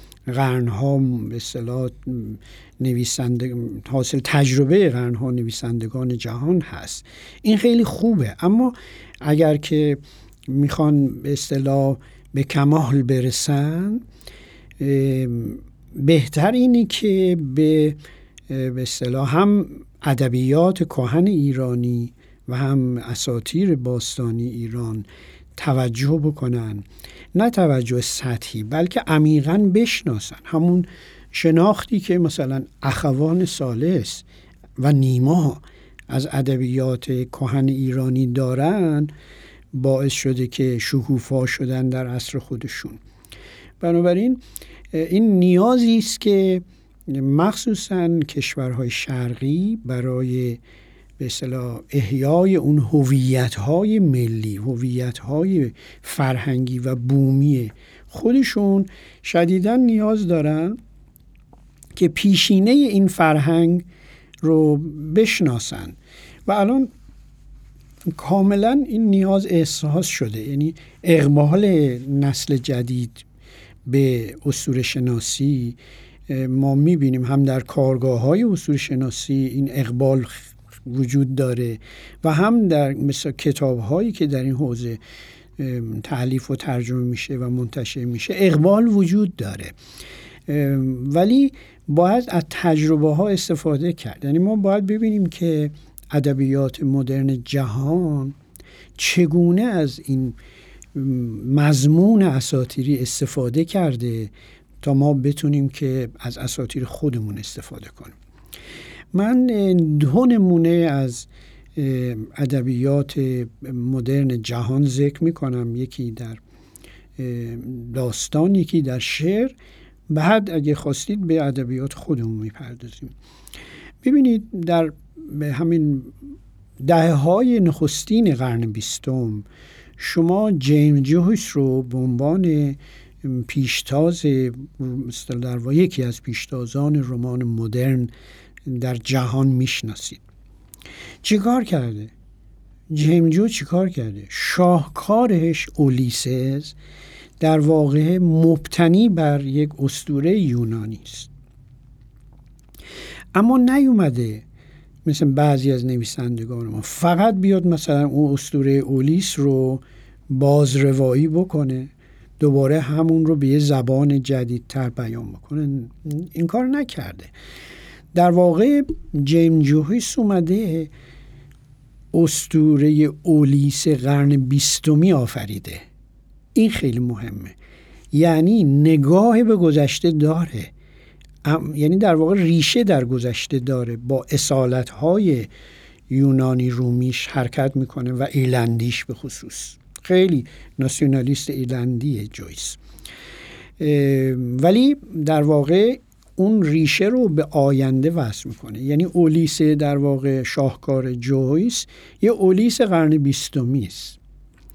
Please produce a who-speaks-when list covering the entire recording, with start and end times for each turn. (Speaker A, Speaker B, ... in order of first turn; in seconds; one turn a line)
Speaker A: 0.3-14.0
Speaker A: 14.8-34.2
Speaker A: 34.8-39.1
Speaker A: 39.7-43.0
Speaker A: 43.8-50.6
Speaker A: 51.2-60.8
Speaker A: 61.9-63.9
Speaker A: 64.4-66.9
Speaker A: 68.0-73.2
Speaker A: 73.8-75.8
Speaker A: 76.3-85.0
Speaker A: 85.6-89.8
Speaker A: 90.5-98.3
Speaker A: 99.0-100.3
Speaker A: 100.9-108.2
Speaker A: 109.1-116.4
Speaker A: 117.2-119.5
Speaker A: 120.1-123.1
Speaker A: 124.0-126.1
Speaker A: 126.8-129.4
Speaker A: 130.0-138.1
Speaker A: 138.6-140.2
Speaker A: 141.2-142.1
Speaker A: 142.9-146.7
Speaker A: 147.4-151.3
Speaker A: 153.3-154.4
Speaker A: 155.0-167.3
Speaker A: 168.1-170.9
Speaker A: 172.1-175.8
Speaker A: 176.5-177.5
Speaker A: 178.1-180.7
Speaker A: 181.4-185.5
Speaker A: 186.1-192.8
Speaker A: 193.8-204.2